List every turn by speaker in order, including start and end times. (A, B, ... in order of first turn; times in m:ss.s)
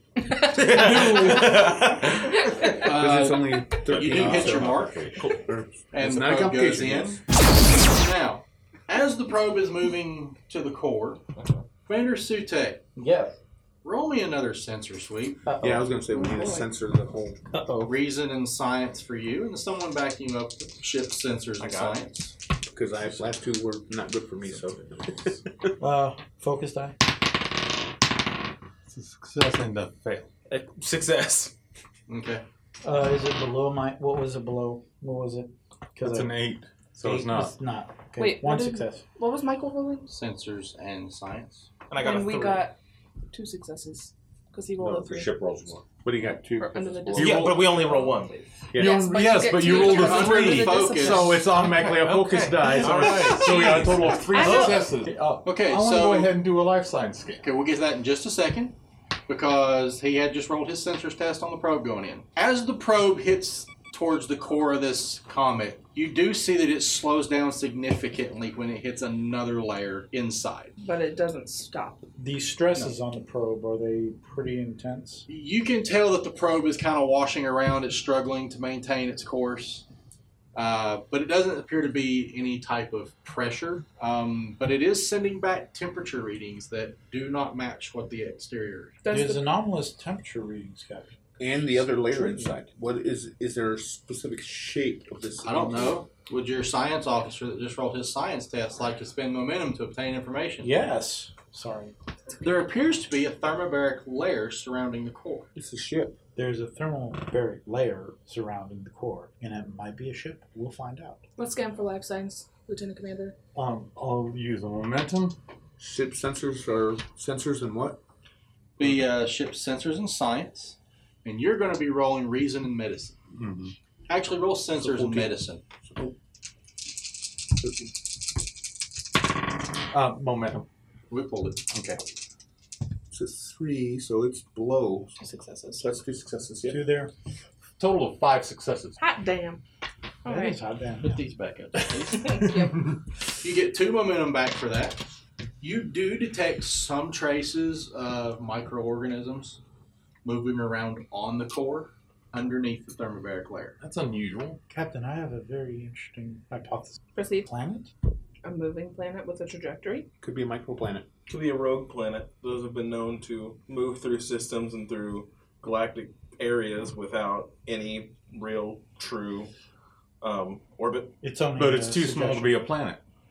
0:00.5-0:02.8 A
0:00.8-0:01.5 B
0:02.4-0:02.7 C
0:02.7-0:07.2 D
0:02.7-0:05.0 E
0:03.9-0:05.4 F
0:05.9-0:11.2 E
0:11.4-0:11.6 A
0:11.9-0:12.8 E
0:13.0-0:13.4 B
0:13.8-0:15.4 E
0:15.4-0:16.6 B
0:15.6-0:17.4 D
0:16.1-0:16.6 C
0:17.5-0:17.9 B
0:17.8-0:22.3 E
0:21.6-0:22.0 A
0:22.7-0:24.8 D
0:24.5-0:25.2 F
0:25.8-0:27.0 B
0:28.9-0:30.3 G
0:30.5-0:31.5 A
0:32.1-0:32.4 E
0:32.8-0:36.3 B
0:36.0-0:37.6 G
0:37.0-0:39.0 B
0:38.2-0:40.2 C
0:40.1-0:41.7 E
0:41.9-0:42.6 A
0:42.0-0:42.8 C
0:43.3-0:45.3 C
0:44.8-0:45.8 F
0:46.0-0:47.6 D
0:46.6-0:51.7 C
0:47.2-0:47.7 G
0:47.2-0:48.3 A
0:48.7-0:49.2 D
0:48.8-0:57.4 G
0:49.6-0:54.6 E
0:53.0-0:54.9 C
0:55.4-0:56.4 E
0:57.4-0:58.7 E
0:59.3-1:10.7 E
1:10.8-1:12.0 C
1:12.2-1:15.3 B
1:15.3-1:19.8 E
1:20.6-1:29.0 E
1:29.0-1:29.5 C
1:29.1-1:32.6 B
1:31.4-1:36.0 D
1:35.4-1:40.7 E
1:40.6-1:41.9 B
1:42.4-1:45.5 E
1:45.6-1:46.2 D
1:46.4-1:51.2 B
1:51.4-1:53.4 C
1:53.6-1:55.4 G
1:55.8-1:58.0 D
1:58.8-2:03.2 E
2:03.3-2:03.7 G
2:04.1-2:05.6 E
2:04.8-2:05.3 D
2:05.9-2:06.1 D
2:07.6-2:07.9 D
2:09.9-2:10.7 G
2:11.1-2:11.8 E
2:11.7-2:12.0 G
2:13.1-2:15.1 D
2:15.2-2:15.8 C
2:15.8-2:16.9 D
2:16.7-2:17.1 B
2:17.8-2:19.0 G
2:19.0-2:19.6 C
2:20.2-2:20.6 C
2:20.3-2:21.2 B
2:21.0-2:22.4 E
2:22.1-2:22.9 C
2:23.4-2:25.0 E
2:25.6-2:29.6 E
2:30.2-2:33.8 E
2:33.8-2:34.6 G
2:34.7-2:37.9 B
2:37.1-2:37.5 C
2:38.4-2:40.1 C
2:40.2-2:41.1 D
2:41.3-2:49.5 A
2:50.2-2:51.1 A
2:51.2-2:52.5 B
2:51.6-2:53.0 G